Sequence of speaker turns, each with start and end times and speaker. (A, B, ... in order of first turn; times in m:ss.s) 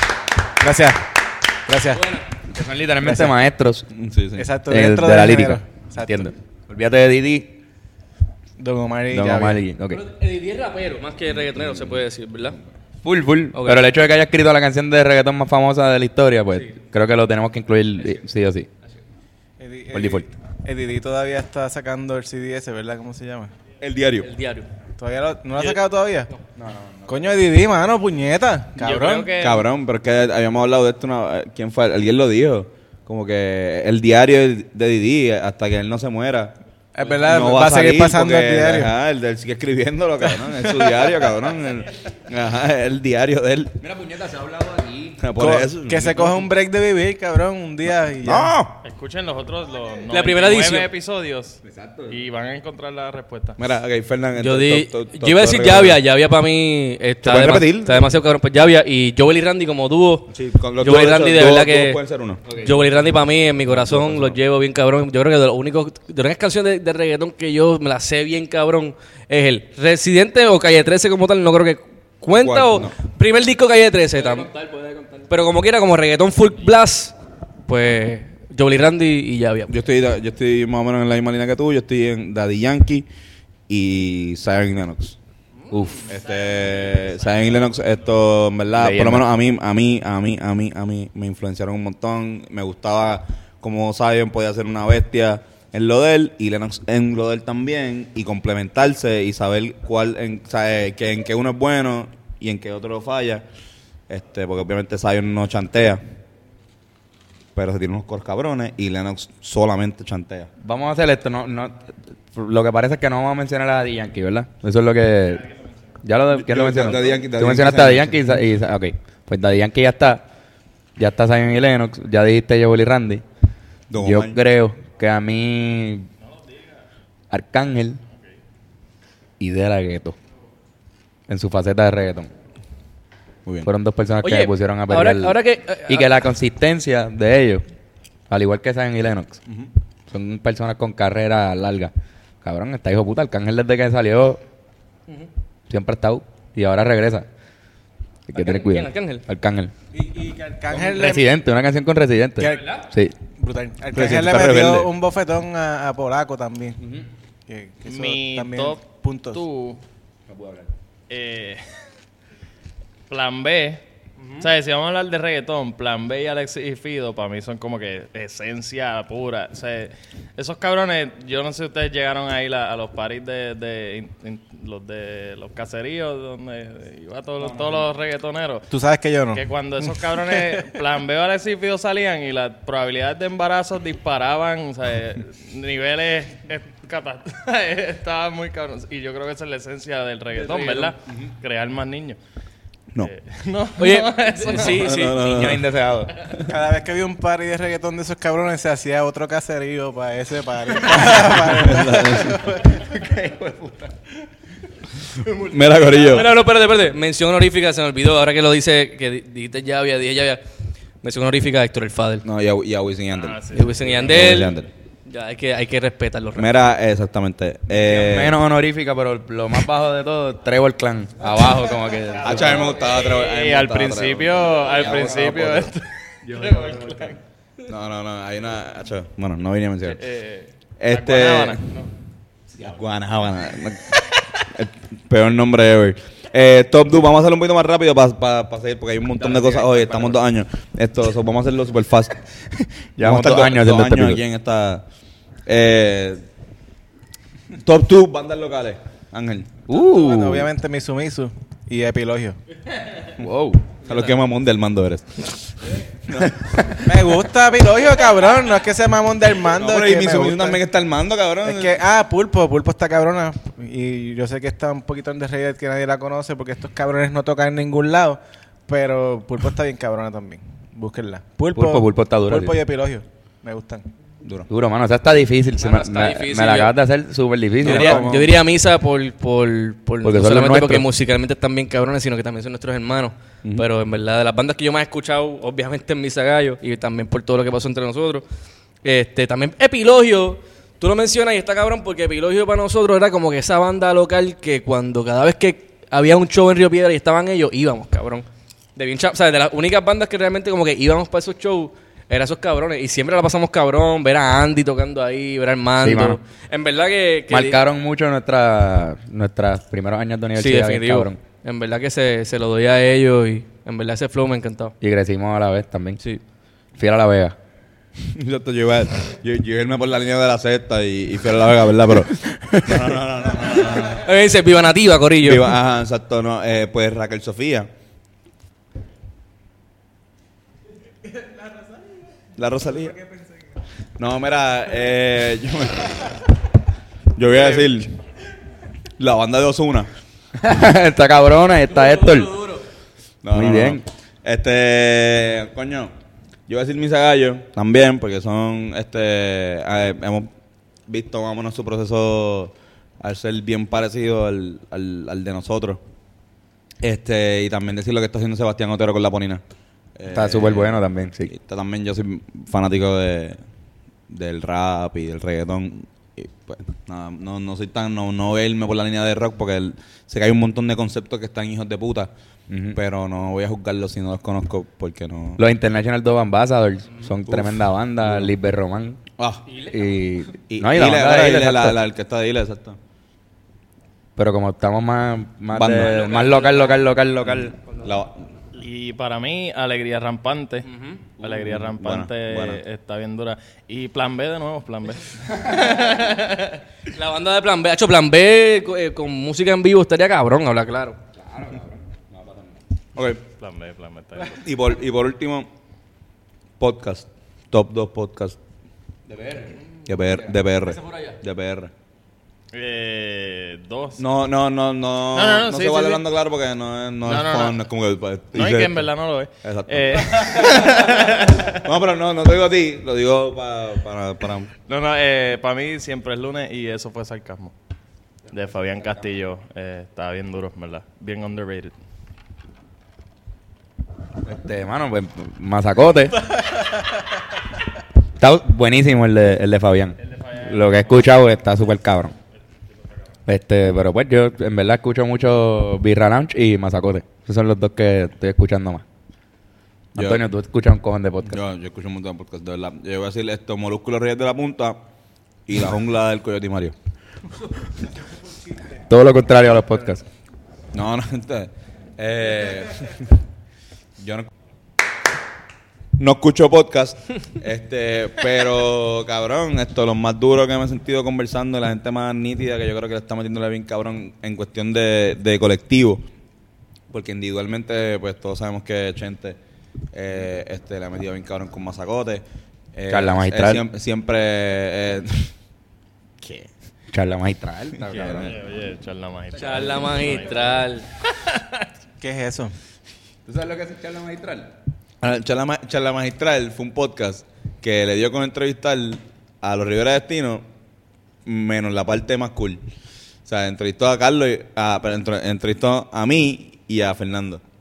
0:00.6-0:01.1 A
0:01.6-0:02.0 A
0:01.9-0:02.2 B
0:02.5-0:03.9 C
0:03.0-0:03.3 A
0:03.9-0:04.5 D
0:04.4-0:06.3 A
0:04.7-0:07.6 C
0:08.6-0:09.6 A
0:09.1-0:10.0 C
0:09.9-0:12.6 B
0:13.0-0:18.7 C
0:13.5-0:13.8 B
0:19.6-0:23.5 A
0:19.9-0:20.3 C
0:23.8-0:24.3 D
0:24.2-0:24.7 B
0:25.0-0:26.3 A
0:26.6-0:27.4 C
0:27.1-0:29.3 A
0:28.8-0:29.7 E
0:29.4-0:36.5 D
0:36.9-0:38.9 A
0:37.2-0:43.7 D
0:43.8-0:45.2 C
0:45.2-0:46.4 D
0:45.4-0:48.5 A
0:48.2-0:48.8 D
0:48.8-0:53.6 E
0:50.1-0:50.9 B
0:51.6-0:52.2 C
0:53.6-0:56.0 D
0:54.4-1:02.0 B
0:57.2-0:58.1 D
1:00.3-1:02.4 D
1:02.5-1:02.8 C
1:02.5-1:14.5 B
1:03.7-1:04.4 D
1:12.4-1:12.9 D
1:14.1-1:15.3 C
1:15.3-1:17.1 B
1:17.7-1:19.7 B
1:19.7-1:23.1 D
1:23.7-1:25.2 D
1:25.7-1:26.1 C
1:26.1-1:27.7 E
1:26.1-1:43.4 D
1:28.7-1:29.3 C
1:44.1-1:46.0 D
1:47.5-1:50.5 D
1:50.6-1:55.5 C
1:56.0-2:00.2 C
1:56.3-1:58.4 D
2:01.0-2:03.2 C
2:03.9-2:04.4 D
2:04.0-2:06.1 C
2:06.3-2:06.6 E
2:07.3-2:08.0 C
2:09.4-2:10.2 C
2:11.3-2:12.3 C
2:13.4-2:13.7 D
2:13.6-2:17.6 C
2:14.2-2:16.2 B
2:18.3-2:19.4 C
2:20.1-2:21.9 C
2:22.4-2:24.4 C
2:25.7-2:27.3 C
2:28.3-2:29.7 C
2:28.3-2:29.2 B
2:29.9-2:31.3 A
2:30.7-2:33.1 C
2:32.4-2:32.8 A
2:33.4-2:36.8 A
2:33.9-2:34.9 D
2:36.8-2:37.1 C
2:37.5-2:39.4 A
2:37.8-2:39.8 E
2:40.3-2:40.7 C
2:41.1-2:41.6 E
2:43.1-2:43.8 E
2:44.4-2:58.6 E
2:58.7-3:00.6 A
2:59.3-3:12.2 E
3:10.4-3:10.9 B
3:13.0-3:14.9 E
3:13.8-3:15.5 B
3:14.7-3:15.7 D
3:15.1-3:16.1 C
3:16.4-3:22.7 A
3:21.1-3:22.4 D
3:22.5-3:23.9 C
3:25.3-3:26.3 D
3:25.9-3:30.4 B
3:31.0-3:32.2 B
3:32.2-3:34.7 D
3:33.1-3:34.1 E
3:33.5-3:36.5 B
3:36.4-3:38.4 D
3:37.7-3:42.8 C
3:42.2-3:45.7 D
3:42.4-3:47.2 E
3:44.8-3:45.3 C
3:46.3-3:47.1 C
3:47.7-3:50.1 D
3:49.9-3:51.9 E
3:50.8-3:51.6 D
3:52.6-4:02.2 D
3:59.3-4:00.1 C
4:03.0-4:04.2 C
4:03.0-4:04.8 D
4:05.4-4:06.2 D
4:07.6-4:09.6 D
4:09.7-4:10.5 C
4:09.7-4:12.4 A
4:13.2-4:13.6 C
4:13.8-4:15.5 D
4:16.1-4:16.7 D
4:16.8-4:20.6 A
4:19.6-4:21.8 D
4:21.4-4:33.9 A
4:31.5-4:32.6 C
4:34.2-4:34.5 D
4:34.5-4:38.0 C
4:35.6-4:36.7 B
4:37.6-4:38.3 D
4:37.6-4:48.2 B
4:40.0-4:40.8 C
4:48.8-5:07.6 B
5:05.8-5:06.2 C
5:07.3-5:11.2 C
5:10.4-5:14.7 B
5:14.8-5:16.0 C
5:16.8-5:17.4 C
5:18.1-5:24.1 D
5:23.7-5:25.6 B
5:25.2-5:27.7 D
5:32.4-5:33.0 D
5:34.0-5:36.1 D
5:37.1-5:37.9 D
5:39.0-5:39.9 D
5:40.4-5:42.4 C
5:41.9-5:42.6 B
5:43.2-5:45.9 D
5:43.3-5:43.8 C
5:46.5-5:50.3 D
5:50.9-5:55.8 D
5:56.8-5:59.4 D
6:00.0-6:03.4 D
6:00.1-6:01.3 C
6:04.1-6:12.1 D
6:12.5-6:12.8 C
6:12.7-6:15.4 D
6:15.4-6:19.0 C
6:17.2-6:18.3 D
6:19.2-6:19.5 D
6:19.6-6:21.8 C
6:20.5-6:22.8 D
6:24.2-6:27.6 C
6:25.5-6:26.4 D
6:27.8-6:28.2 D
6:28.5-6:30.7 E
6:30.7-6:31.0 B
6:31.2-6:36.6 E
6:31.2-6:32.6 D
6:36.9-6:41.0 B
6:41.2-6:42.6 C
6:42.9-6:43.2 D
6:43.4-6:44.4 E
6:44.4-6:45.5 D
6:46.6-6:48.4 D
6:49.1-6:50.4 C
6:49.8-6:51.7 D
6:52.5-6:54.0 E
6:54.0-7:00.8 D
6:55.1-6:56.0 E
6:57.0-6:57.6 E
6:58.3-7:01.6 E
7:01.5-7:04.5 D
7:04.7-7:07.5 E
7:08.3-7:11.7 E
7:14.2-7:16.2 C
7:18.2-7:22.1 C
7:20.0-7:21.1 E
7:22.7-7:23.0 E
7:23.2-7:28.8 C
7:29.9-7:31.4 C
7:30.0-7:30.2 D
7:31.2-7:34.8 D
7:35.4-7:36.7 D
7:38.9-7:40.0 C
7:40.7-7:43.1 D
7:44.0-7:44.3 D
7:46.0-7:56.0 D
7:56.9-7:59.4 D
7:59.9-8:05.3 D
8:02.9-8:03.6 C
8:06.2-8:06.5 D
8:06.9-8:08.3 C
8:07.9-8:08.3 D
8:07.9-8:11.7 E
8:09.3-8:10.9 B
8:12.0-8:12.5 A
8:13.2-8:14.5 C
8:15.0-8:20.4 D
8:21.2-8:22.6 D
8:23.2-8:27.4 D